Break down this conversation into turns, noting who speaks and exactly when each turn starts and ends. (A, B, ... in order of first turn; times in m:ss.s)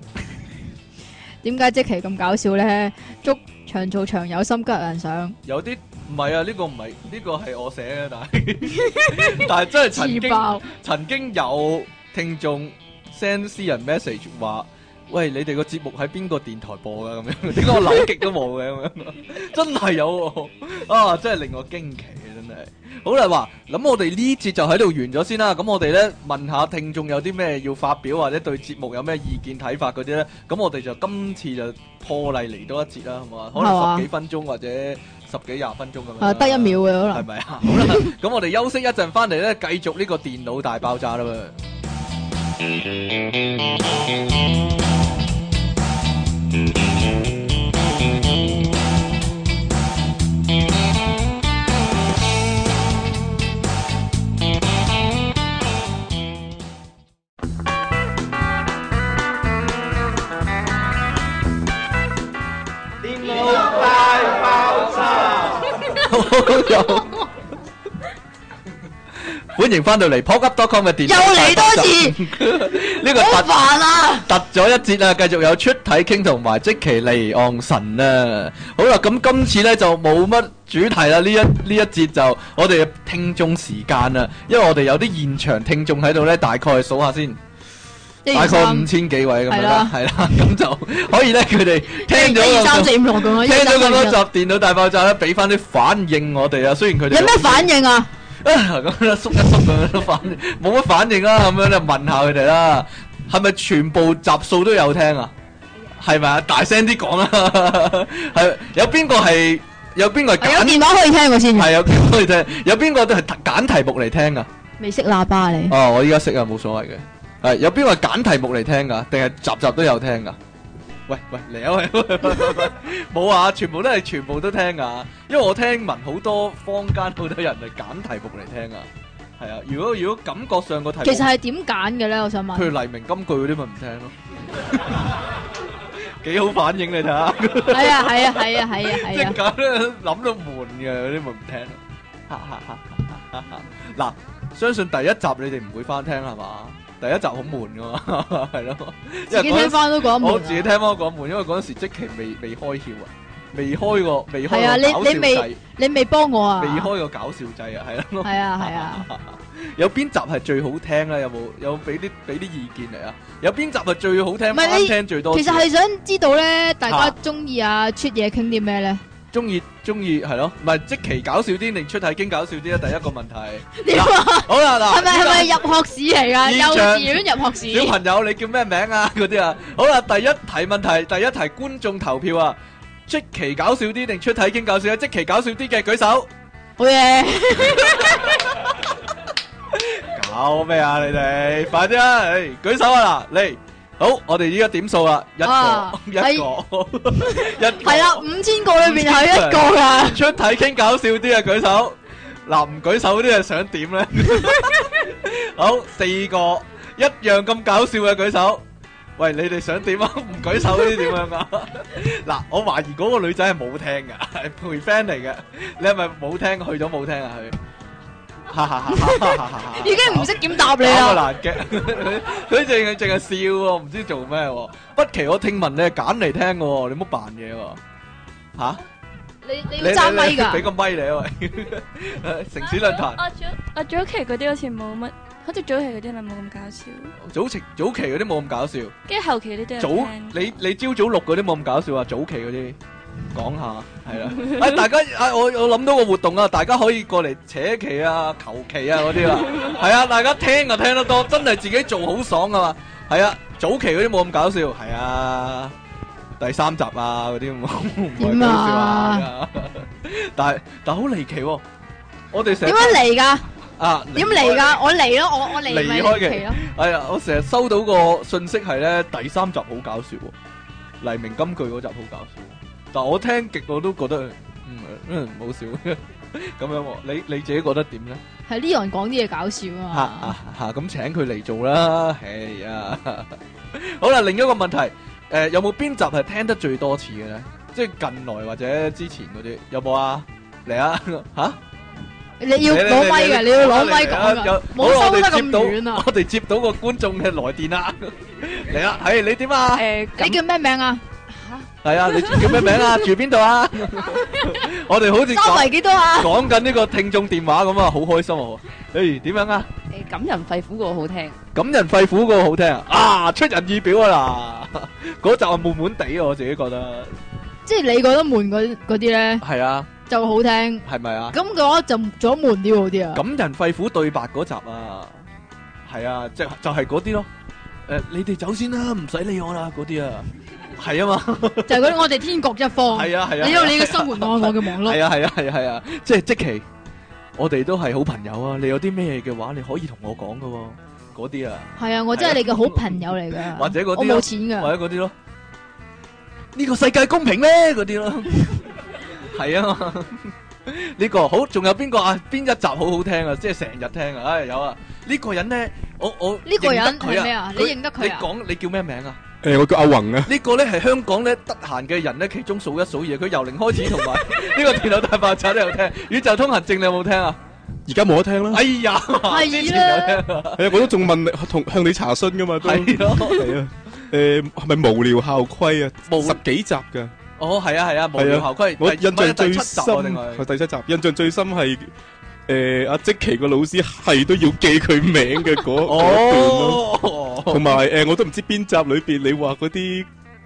0:01.4-0:05.4 A
0:05.4-0:41.6 B
0:08.7-0:10.7 A
0:33.6-0:34.1 A
0:36.2-0:38.1 A
1:06.0-1:07.1 B
1:09.2-1:13.5 B
1:11.1-1:12.2 A
1:13.1-1:14.3 A
1:14.3-1:27.4 B
1:28.3-1:28.9 A
1:28.3-1:37.7 B
1:29.5-1:29.9 A
1:32.0-1:34.2 A
1:37.1-1:38.1 A
1:38.4-1:45.3 B
1:46.0-1:50.8 B
1:50.4-1:52.1 A
1:51.5-1:54.5 B
1:54.8-1:55.8 A
1:55.7-2:00.4 B
2:01.1-2:08.9 B
2:09.4-2:11.3 B
2:11.0-2:12.7 A
2:12.5-2:15.2 B
2:16.2-2:35.6 B
2:17.7-2:19.4 A
2:29.3-2:30.7 A
2:34.5-2:36.9 A
2:36.6-2:45.7 B
2:38.2-2:39.1 A
2:44.5-2:49.0 A
2:46.9-2:47.2 B
2:49.3-2:55.6 B
2:53.8-2:58.0 A
2:56.4-3:06.3 B
3:06.8-3:08.4 A
3:09.7-3:18.3 B
3:15.4-3:16.5 A
3:17.2-3:20.2 A
3:18.8-3:28.6 B
3:29.2-3:37.6 B
3:38.5-3:47.8 B
3:38.9-3:41.2 A
3:48.6-3:48.8 B
3:49.4-3:50.7 A
3:49.8-3:53.2 B
3:52.6-3:57.1 C
3:57.2-3:59.0 B
3:59.1-4:00.6 C
3:59.8-4:02.8 B
4:03.3-4:15.8 B
4:16.4-4:21.6 B
4:18.2-4:19.3 A
4:22.3-4:23.0 B
4:22.6-4:23.4 A
4:23.8-4:24.8 B
4:24.1-4:26.6 A
4:25.6-4:30.4 B
4:31.0-4:38.2 B
4:38.5-4:40.4 A
4:39.9-4:51.6 B
4:52.4-4:56.1 A
4:52.6-4:59.9 B
4:59.8-5:00.4 D
5:00.1-5:01.0 A
5:01.3-5:01.7 D
5:01.8-5:09.7 B
5:05.3-5:06.4 A
5:09.9-5:11.4 D
5:11.5-5:17.2 B
5:17.7-5:19.4 A
5:19.4-5:19.9 B
5:20.1-5:23.2 A
5:20.8-5:21.4 B
5:23.1-5:25.2 B
5:25.9-5:27.3 B
5:27.9-5:32.0 B
5:31.7-5:35.0 A
5:32.9-5:36.7 B
5:37.4-5:45.2 B
5:41.8-5:44.7 A
5:46.6-5:59.2 B
5:56.4-5:58.3 A
5:59.4-6:00.3 E
6:00.3-6:07.4 B
6:07.9-6:08.7 E
6:08.5-6:10.9 B
6:09.2-6:10.2 A
6:10.6-6:17.1 E
6:12.6-6:13.6 B
6:16.1-6:16.4 B
6:17.4-6:20.5 B
6:18.2-6:21.9 E
6:22.5-6:26.8 E
6:25.8-6:27.8 B
6:27.5-6:30.1 E